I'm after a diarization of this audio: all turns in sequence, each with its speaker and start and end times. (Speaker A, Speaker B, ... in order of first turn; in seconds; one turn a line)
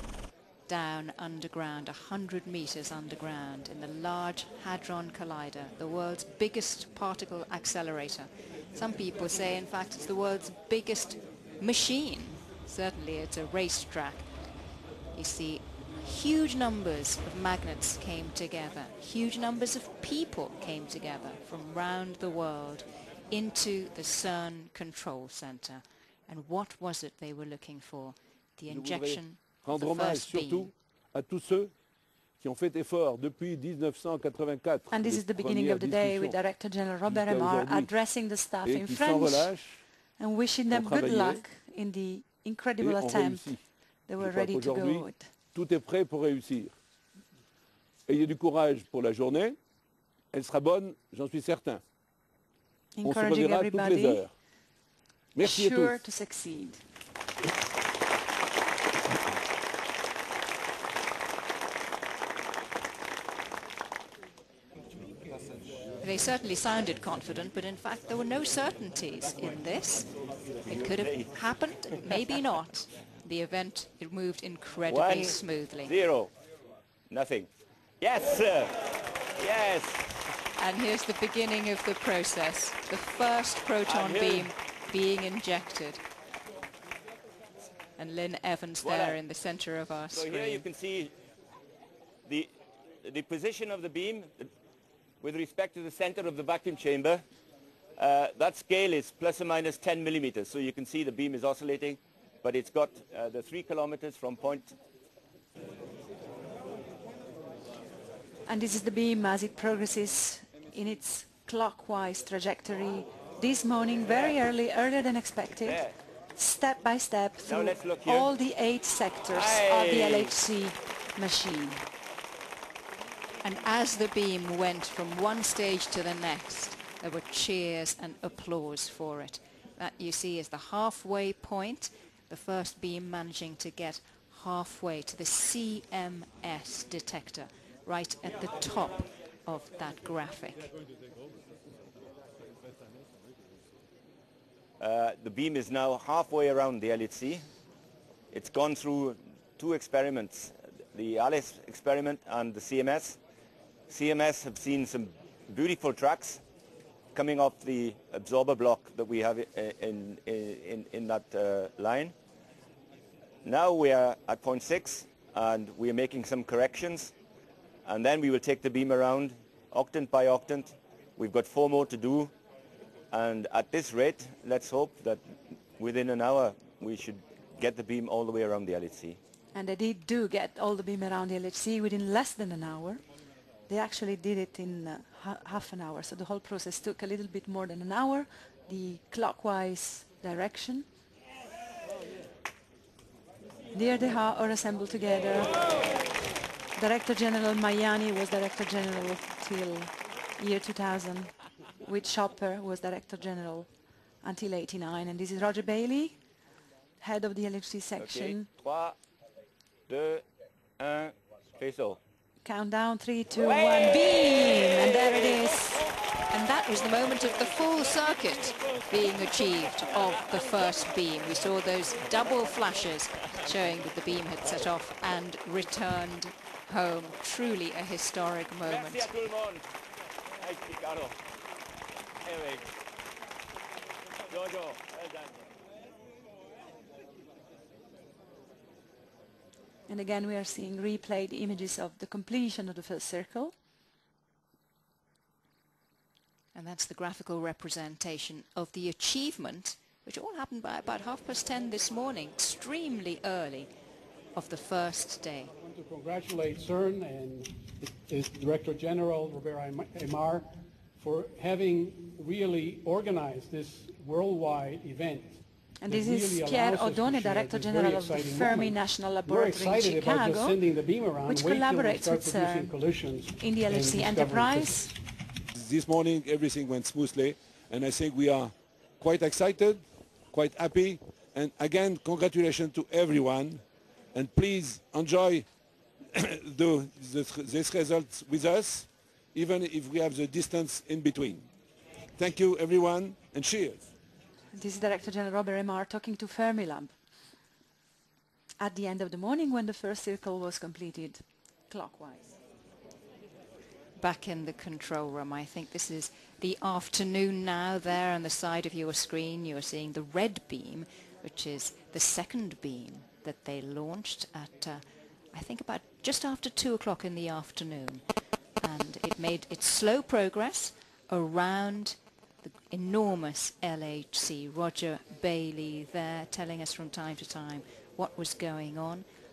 Speaker A: 0.7-14.3
Speaker A: 15.2-30.7
Speaker B: 28.7-31.7
Speaker B: 32.4-36.4
Speaker C: 34.9-39.5
Speaker B: 37.0-37.9
Speaker B: 38.6-39.8
Speaker C: 40.2-43.5
Speaker B: 40.7-41.4
Speaker B: 42.8-43.6
Speaker C: 44.1-45.3
Speaker B: 44.2-46.7
Speaker B: 48.1-49.6
Speaker B: 50.3-51.8
Speaker C: 53.0-54.2
Speaker B: 53.0-54.3
Speaker B: 55.4-56.0
Speaker C: 55.4-56.8
Speaker A: 66.0-70.1
Speaker A: 70.7-75.9
Speaker D: 70.7-71.4
Speaker D: 74.9-76.3
Speaker D: 77.1-77.5
Speaker D: 78.0-78.8
Speaker D: 79.4-80.0
Speaker A: 80.6-86.0
Speaker D: 83.9-84.5
Speaker A: 88.0-90.7
Speaker D: 88.8-89.2
Speaker D: 90.1-91.1
Speaker D: 92.3-92.5
Speaker D: 93.0-94.5
Speaker D: 95.2-97.2
Speaker D: 98.0-104.7
Speaker C: 108.5-115.8
Speaker D: 115.6-115.9
Speaker C: 116.4-121.8
Speaker D: 117.5-118.3
Speaker D: 119.3-120.4
Speaker A: 123.4-140.6
Speaker D: 144.8-147.5
Speaker D: 148.3-153.2
Speaker D: 153.9-156.4
Speaker D: 157.2-162.1
Speaker D: 163.4-167.1
Speaker D: 167.8-172.3
Speaker D: 173.1-175.2
Speaker D: 175.8-179.2
Speaker C: 179.5-183.0
Speaker C: 183.7-190.8
Speaker C: 193.7-195.6
Speaker C: 196.8-203.7
Speaker C: 204.2-206.2
Speaker C: 207.0-208.5
Speaker D: 208.0-209.0
Speaker D: 209.9-210.2
Speaker D: 210.8-212.0
Speaker C: 212.4-215.8
Speaker A: 216.3-229.1
Speaker D: 228.7-229.6
Speaker D: 230.4-231.2
Speaker D: 232.2-232.7
Speaker D: 234.3-235.3
Speaker C: 239.9-243.5
Speaker A: 246.5-253.7
Speaker A: 254.3-255.5
Speaker E: 255.5-274.9
Speaker C: 265.8-270.6
Speaker C: 271.2-272.8
Speaker C: 273.4-274.9
Speaker B: 275.6-285.5
Speaker B: 286.1-291.5
Speaker B: 292.2-293.9
Speaker C: 294.5-296.9
Speaker C: 298.6-302.3
Speaker A: 304.0-318.0
Speaker A: 318.6-329.1